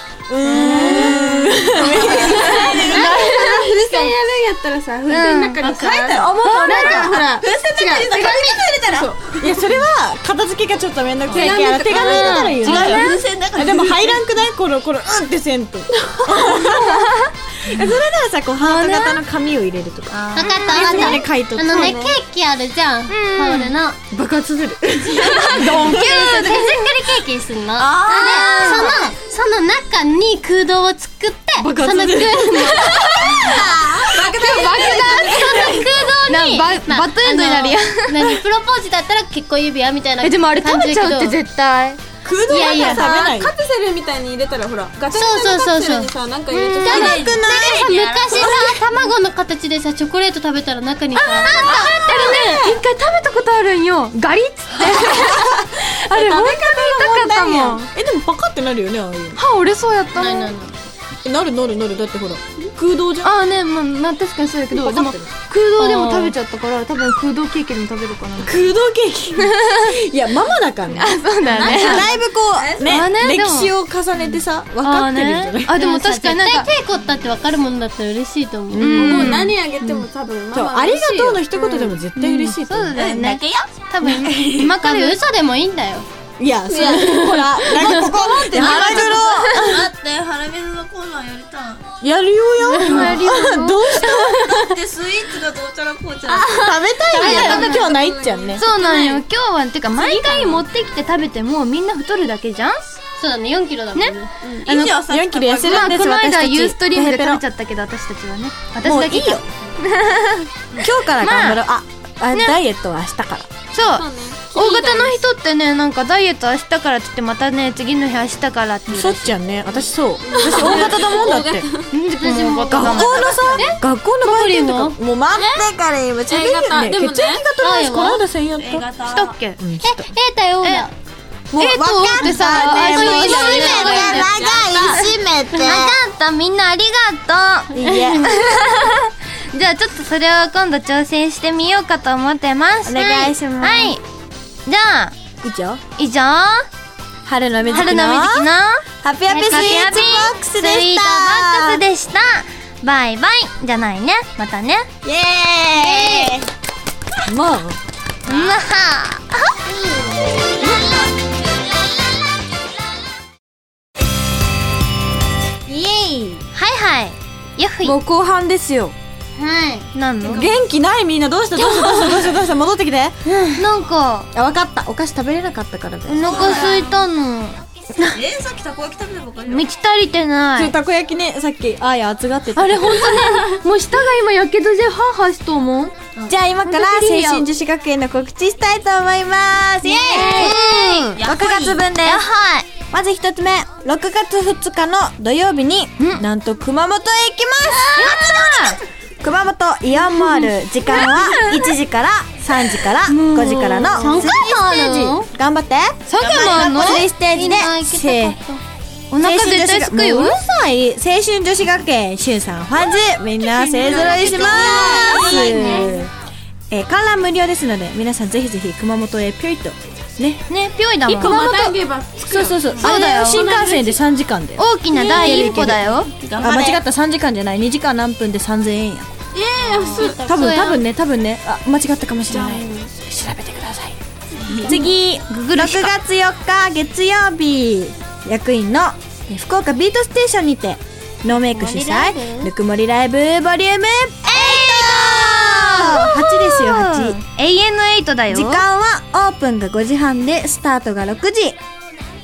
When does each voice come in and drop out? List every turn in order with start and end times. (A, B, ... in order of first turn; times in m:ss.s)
0:00.3-0:03.1 A
0:00.4-0:03.3 B
0:00.6-0:09.2 C
0:02.9-0:04.1 D
0:05.1-0:05.6 D
0:05.6-0:09.7 B
0:06.4-0:07.2 D
0:09.4-0:22.0 A
0:11.2-0:11.6 B
0:11.3-0:12.8 C
0:11.6-0:13.2 D
0:12.6-0:14.2 B
0:16.1-0:17.1 C
0:18.6-0:19.2 D
0:20.1-0:20.6 B
0:20.3-0:24.0 E
0:20.4-0:21.1 D
0:20.7-0:21.0 C
0:21.6-0:22.2 C
0:23.1-0:23.8 D
0:24.1-0:26.5 A
0:25.1-0:27.0 D
0:25.7-0:26.5 C
0:26.1-0:33.5 E
0:27.8-0:29.0 B
0:28.2-0:29.0 D
0:31.6-0:35.7 A
0:33.3-0:38.4 D
0:34.0-0:35.3 C
0:34.9-0:35.9 B
0:35.3-0:41.4 E
0:40.2-0:42.0 D
0:42.2-0:43.5 A
0:42.5-0:43.0 E
0:42.5-0:43.0 D
0:42.7-0:47.2 C
0:45.1-0:47.2 E
0:46.8-0:48.6 A
0:46.9-0:48.6 B
0:47.8-0:48.5 C
0:47.9-0:52.0 E
0:51.1-0:57.9 D
0:51.7-0:52.2 A
0:51.7-0:52.8 C
0:55.1-0:59.4 A
0:59.4-1:00.5 D
1:00.2-1:00.7 E
1:01.2-1:03.3 A
1:03.2-1:08.6 D
1:04.7-1:05.3 A
1:05.8-1:06.3 E
1:08.4-1:15.7 A
1:09.4-1:09.8 D
1:10.9-1:12.1 D
1:11.4-1:13.0 C
1:12.8-1:16.7 D
1:15.7-1:18.9 E
1:18.7-1:19.5 A
1:18.8-1:20.0 D
1:18.9-1:22.0 C
1:20.5-1:23.0 A
1:22.2-1:25.2 D
1:22.9-1:24.8 B
1:24.8-1:26.1 E
1:26.4-1:29.7 A
1:26.7-1:29.4 C
1:28.6-1:29.8 D
1:28.6-1:31.8 B
1:32.0-1:34.5 A
1:32.7-1:33.3 E
1:32.8-1:34.3 D
1:34.0-1:36.5 B
1:36.3-1:39.2 C
1:36.3-1:38.6 A
1:37.1-1:37.9 D
1:38.6-1:43.0 D
1:39.9-1:40.6 C
1:43.2-1:44.3 E
1:43.9-1:45.0 D
1:44.6-1:46.0 B
1:45.1-1:47.4 A
1:45.6-1:49.4 D
1:48.8-1:49.4 A
1:50.8-1:53.5 A
1:51.2-1:51.6 D
1:52.3-1:52.6 D
1:53.7-1:59.4 D
1:53.8-1:55.2 C
1:58.9-2:01.7 A
2:00.2-2:01.9 C
2:01.9-2:03.4 D
2:02.2-2:02.8 E
2:02.7-2:08.9 A
2:02.7-2:03.8 B
2:03.5-2:05.0 E
2:05.4-2:05.6 C
2:06.3-2:07.5 C
2:07.6-2:08.2 E
2:08.6-2:09.4 B
2:09.0-2:09.6 D
2:09.6-2:10.1 A
2:09.8-2:10.9 E
2:11.5-2:16.0 A
2:11.5-2:14.3 D
2:12.9-2:14.1 E
2:13.5-2:13.9 B
2:14.1-2:15.0 C
2:14.6-2:15.0 B
2:15.5-2:15.9 E
2:15.6-2:24.0 D
2:17.7-2:18.4 A
2:22.8-2:24.0 A
2:24.6-2:25.1 D
2:25.4-2:25.8 A
2:26.0-2:26.7 D
2:27.2-2:28.5 A
2:27.7-2:34.9 D
2:29.0-2:31.8 A
2:35.0-2:36.4 A
2:35.8-2:36.4 E
2:37.3-2:37.8 A
2:38.3-2:39.8 E
2:45.7-2:46.4 A
2:46.5-2:48.0 E
2:47.8-2:48.9 A
2:49.4-2:49.9 E
2:49.9-2:50.4 D
2:50.2-2:53.1 A
2:53.2-2:54.3 D
2:54.3-2:56.7 A
2:56.0-2:57.6 D
2:56.2-2:57.0 B
2:58.0-2:59.6 B
2:59.5-3:00.7 D
3:00.6-3:03.2 A
3:02.6-3:05.9 D
3:03.1-3:03.6 B
3:06.3-3:10.6 A
3:06.6-3:07.5 D
3:09.8-3:11.2 D
3:10.2-3:11.0 E
3:11.1-3:11.9 B
3:11.2-3:12.2 A
3:12.0-3:12.7 E
3:12.8-3:18.6 A
3:16.0-3:16.2 D
3:18.0-3:18.8 D
3:19.2-3:28.4 A
3:20.0-3:21.7 D
3:22.8-3:25.2 D
3:24.7-3:25.1 E
3:26.1-3:27.2 D
3:27.3-3:28.6 E
3:29.1-3:30.4 D
3:29.2-3:36.1 A
3:33.4-3:36.0 D
3:33.9-3:34.7 B
3:34.1-3:35.9 C
3:36.7-3:40.4 A
3:40.5-3:41.8 D
3:41.0-3:44.0 C
3:42.3-3:49.1 A
3:42.8-3:43.6 D
3:44.6-3:46.1 D
3:45.2-3:45.5 C
3:46.2-3:46.8 B
3:49.3-3:50.2 C
3:49.6-3:50.8 D
3:50.0-3:54.0 A
3:52.3-3:52.6 C
3:54.5-4:07.2 A
3:54.6-3:55.9 D
4:01.5-4:02.5 E
4:04.2-4:08.6 D
4:08.3-4:11.6 A